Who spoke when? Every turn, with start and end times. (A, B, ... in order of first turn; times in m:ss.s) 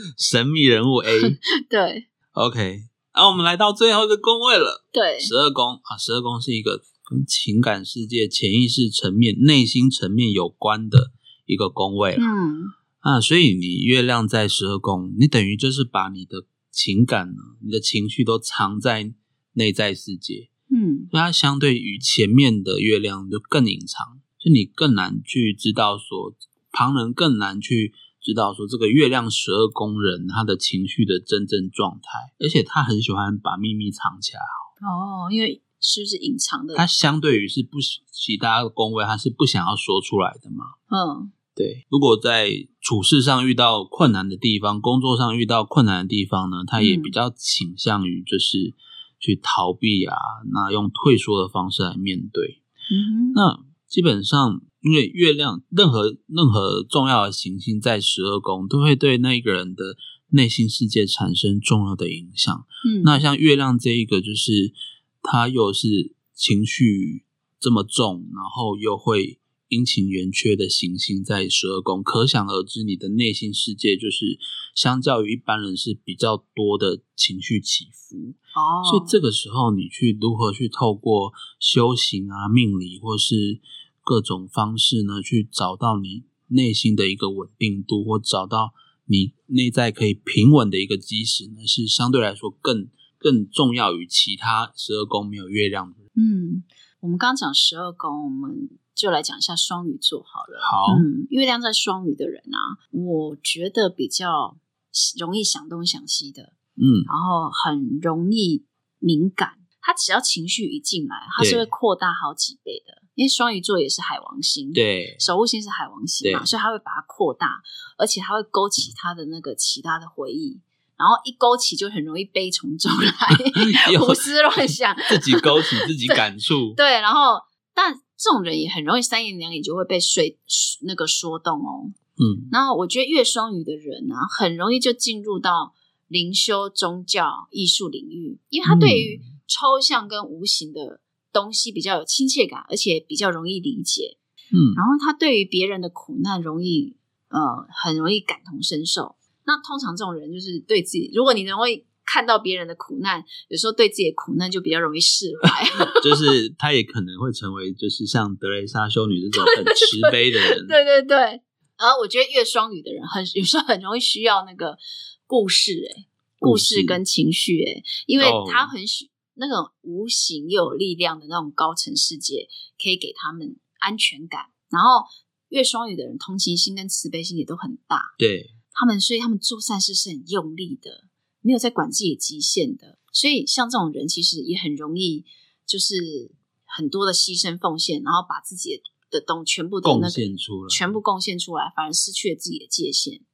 0:00.2-0:01.4 A
0:01.2-0:02.1 B
0:02.3-0:12.3 A
0:04.9-0:05.3 B
0:12.2-0:12.8 B
0:13.0-0:20.5 A
0:20.7-0:21.1 B
0:21.1-0:34.6 A
0:34.8-0:36.8 B
0:36.8-0:40.7 A
0:40.9-0:41.3 B
0:41.6-0:52.6 A
0:46.8-0:47.2 B
0:52.9-0:53.4 B
0:53.3-1:36.0 A
1:02.8-1:03.2 B
1:18.6-1:19.2 B
1:36.2-1:46.5 B
1:40.6-1:41.1 A
1:46.8-1:47.1 A
1:47.1-2:06.2 B
1:51.4-1:51.7 A
1:54.7-1:55.2 A
1:56.2-1:56.5 A
2:03.5-2:06.8 A
2:06.8-2:12.0 B
2:12.2-2:12.5 A
2:12.5-2:24.2 B
2:18.7-2:19.2 A
2:24.5-2:24.8 A
2:24.7-2:36.2 B
2:36.0-2:40.8 A
2:39.3-2:58.1 B
2:46.4-2:47.0 A
2:48.2-2:48.7 A
2:58.2-2:58.5 A
2:58.7-3:13.2 B
3:09.8-3:10.9 A